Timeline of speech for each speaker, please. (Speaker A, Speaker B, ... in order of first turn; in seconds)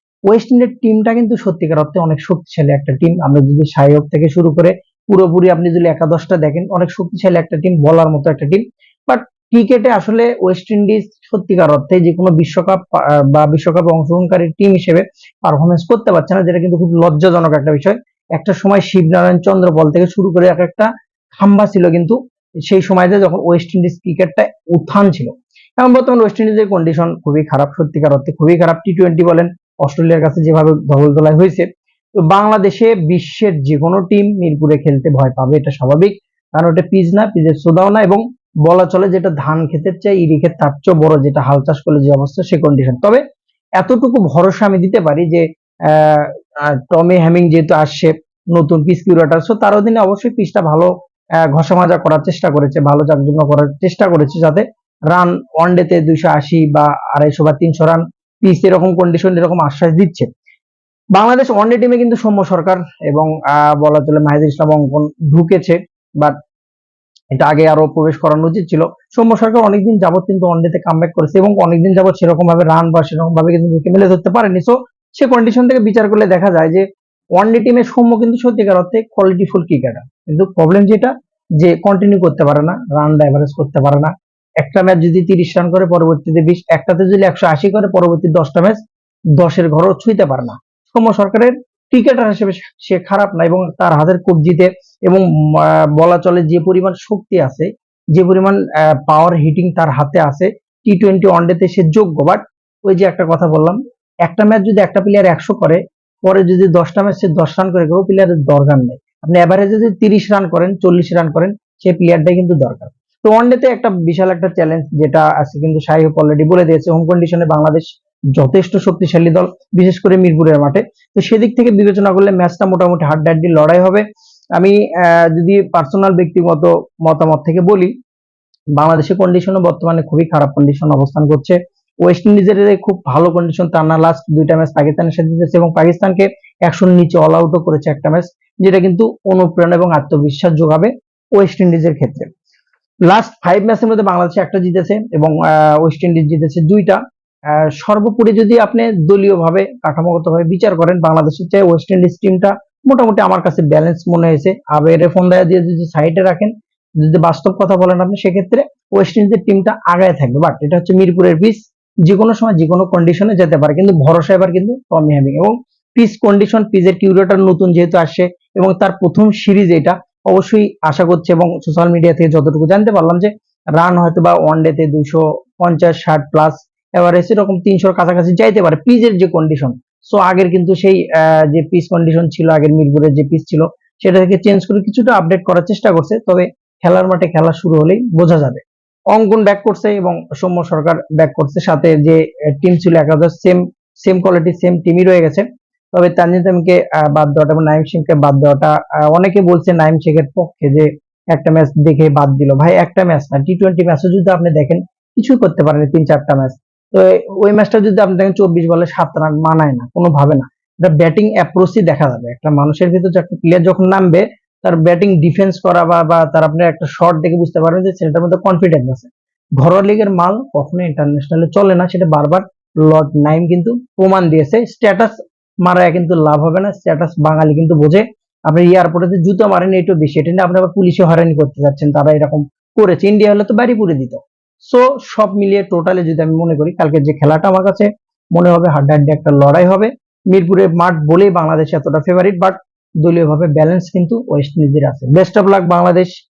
Speaker A: 0.3-31.7, 32.2-43.2, 43.8-50.9, 51.4-60.3, 61.1-66.3, 67.3-76.8, 77.4-88.8, 89.4-124.0, 124.6-127.9, 128.8-142.3, 143.1-147.0, 147.5-246.1